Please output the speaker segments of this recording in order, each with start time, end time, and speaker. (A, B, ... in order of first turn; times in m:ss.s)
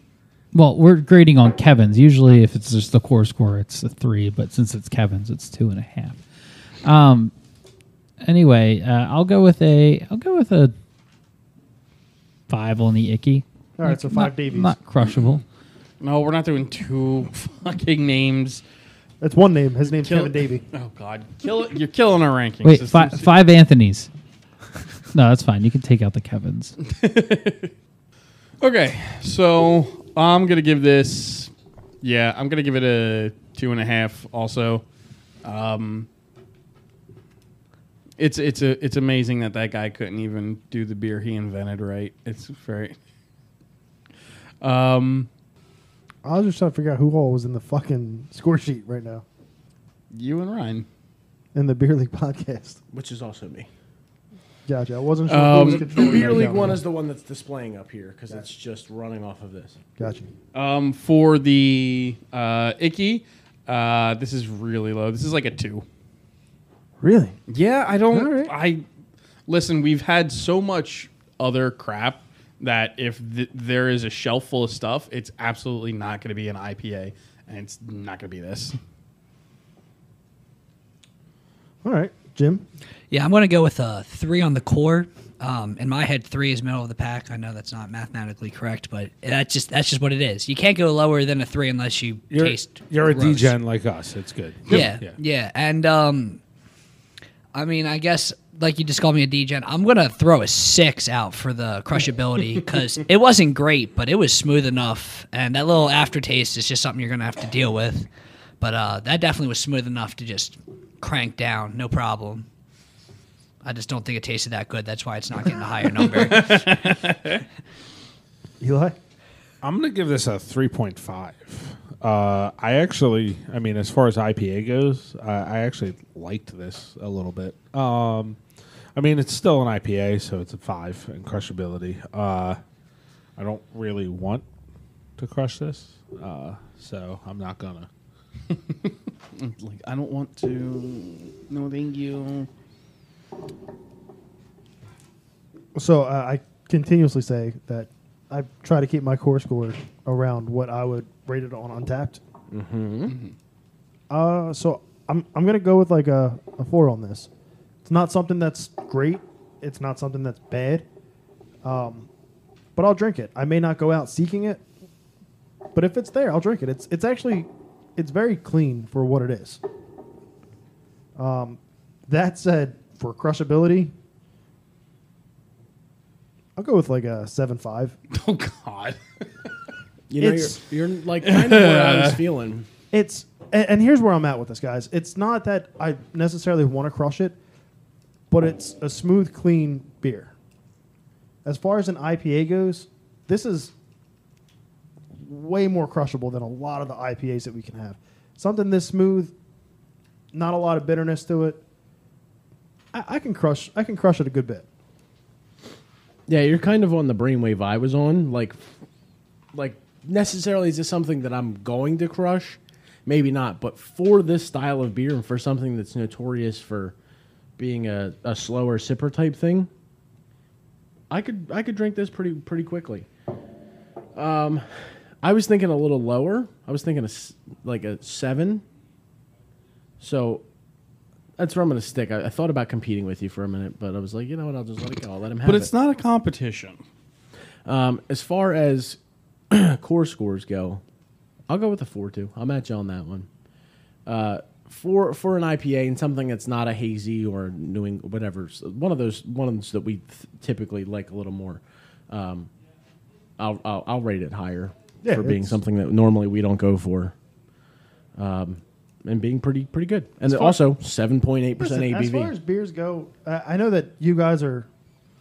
0:00.5-0:06.2 A
0:06.8-0:07.3 A
0:08.2-0:10.7 A
0:12.5-0:15.4 A
0:13.8-0:14.7 B
0:16.0-0:18.6 C
0:19.2-0:20.6 B
0:19.9-0:23.3 C
0:22.6-0:24.1 A
0:25.1-0:26.7 A
0:26.8-0:27.7 C
0:28.6-0:34.8 C
0:35.4-0:36.1 C
0:38.2-0:43.0 C
0:44.6-0:45.3 C
0:46.2-0:49.2 B
0:50.1-0:50.9 C
0:51.5-0:52.8 B
0:52.9-0:53.7 D
0:54.7-0:56.8 B
0:55.2-0:56.5 C
0:55.5-0:59.8 D
1:00.0-1:00.3 B
1:00.5-1:05.8 C
1:07.0-1:07.4 B
1:07.5-1:08.8 C
1:08.1-1:08.5 B
1:09.5-1:18.8 C
1:21.8-1:22.6 B
1:23.1-1:33.6 E
1:32.3-1:35.2 F
1:34.7-1:36.4 E
1:37.5-1:48.1 E
1:48.6-1:52.4 E
1:53.6-1:56.8 E
1:55.9-1:57.4 C
1:58.6-1:59.0 B
1:59.6-2:08.4 F
2:08.9-2:12.6 F
2:13.4-2:14.4 F
2:15.2-2:17.9 F
2:18.5-2:22.5 C
2:25.7-2:32.2 B
2:32.5-2:33.2 D
2:34.1-2:37.3 B
2:37.8-2:40.8 B
2:41.6-2:42.1 B
2:42.8-2:44.6 B
2:45.7-2:49.6 B
2:51.2-2:53.9 B
2:56.6-2:58.0 B
2:58.1-2:59.0 C
3:00.1-3:02.7 D
3:00.2-3:00.6 B
3:01.2-3:02.2 C
3:02.9-3:07.4 B
3:08.3-3:10.3 B
3:11.4-3:13.7 B
3:15.2-3:19.3 B
3:20.3-3:21.6 B
3:22.9-3:24.6 B
3:26.3-3:28.6 D
3:29.5-3:36.9 D
3:37.6-3:39.7 D
3:41.1-3:43.1 D
3:44.1-3:44.6 D
3:45.2-3:48.6 D
3:50.0-3:50.4 D
3:51.4-3:55.7 D
3:55.4-3:56.8 C
3:57.6-3:59.0 D
3:59.5-4:00.8 D
4:01.5-4:03.3 D
4:04.0-4:12.5 D
4:13.4-4:17.1 D
4:15.0-4:15.6 B
4:18.2-4:22.3 D
4:20.2-4:20.7 B
4:21.6-4:24.7 B